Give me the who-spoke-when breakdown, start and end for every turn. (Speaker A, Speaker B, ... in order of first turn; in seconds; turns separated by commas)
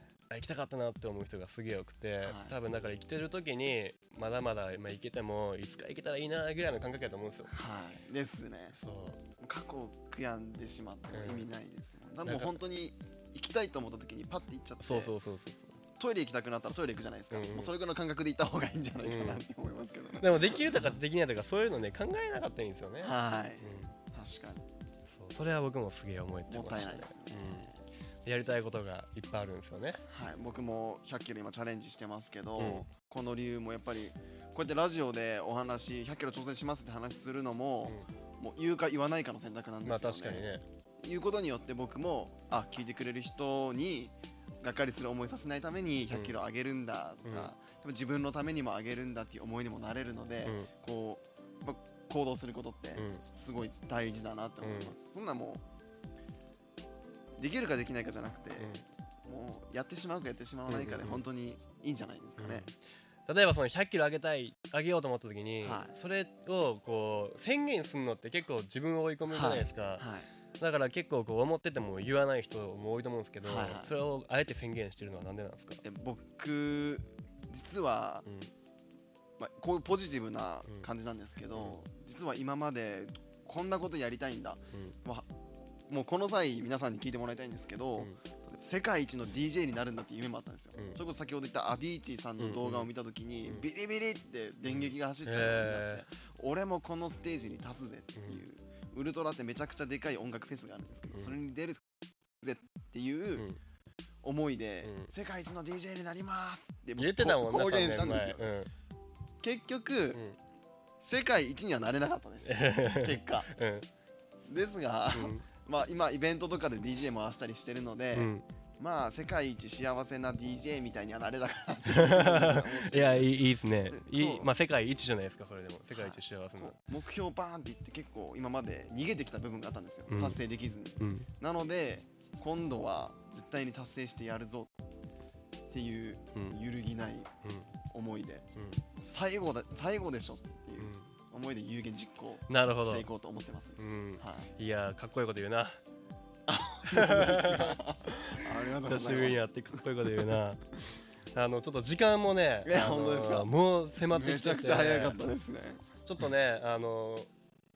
Speaker A: 0.3-7.5, Speaker B: 2.2-2.5, Speaker B: 7.5-8.8, Speaker A: 8.8-9.2, Speaker B: 9.4-15.1, Speaker A: 11.1-11.5, Speaker A: 12.2-12.6, Speaker A: 14.8-15.8, Speaker B: 16.0-21.0, Speaker A: 17.3-17.7, Speaker A: 19.0-19.4, Speaker A: 20.2-23.9, Speaker B: 23.0-24.7, Speaker A: 25.1-27.7, Speaker B: 26.5-27.7, Speaker A: 28.2-30.0, Speaker B: 30.1-40.5, Speaker A: 32.6-32.9, Speaker A: 39.9-40.6, Speaker B: 41.0-55.6, Speaker A: 47.2-47.5, Speaker A: 50.5-50.7, Speaker A: 53.0-53.2, Speaker A: 54.6-55.0, Speaker B: 57.4-62.7, Speaker A: 58.6-58.8, Speaker A: 60.7-61.3, Speaker A: 62.4-62.7, Speaker A: 63.3-70.1, Speaker B: 65.6-66.0, Speaker B: 69.3-70.3, Speaker A: 70.6-75.8, Speaker B: 73.5-73.9, Speaker B: 75.8-78.3, Speaker B: 79.4-85.3, Speaker A: 81.5-81.8, Speaker B: 85.9-101.8, Speaker A: 92.4-92.9, Speaker A: 94.7-96.0, Speaker A: 98.2-98.4, Speaker B: 102.4-103.5, Speaker B: 104.2-108.5, Speaker A: 104.8-105.1, Speaker A: 107.0-108.7, Speaker B: 109.4-110.2, Speaker B: 111.0-113.5, Speaker A: 112.5-113.9, Speaker B: 114.5-123.3, Speaker A: 115.1-115.4, Speaker A: 118.2-118.5, Speaker A: 121.9-126.8, Speaker B: 123.9-124.5, Speaker B: 125.9-134.7, Speaker A: 130.1-130.4, Speaker A: 131.0-131.3, Speaker B: 135.7-137.3, Speaker A: 137.4-137.7, Speaker B: 137.9-144.5, Speaker A: 138.6-138.8, Speaker A: 140.8-141.1, Speaker A: 142.5-143.1, Speaker A: 143.8-145.8, Speaker B: 146.5-150.4, Speaker A: 146.9-147.8, Speaker A: 148.8-150.6, Speaker A: 151.3-155.2, Speaker B: 152.6-153.5, Speaker B: 154.1-155.9, Speaker A: 156.0-157.3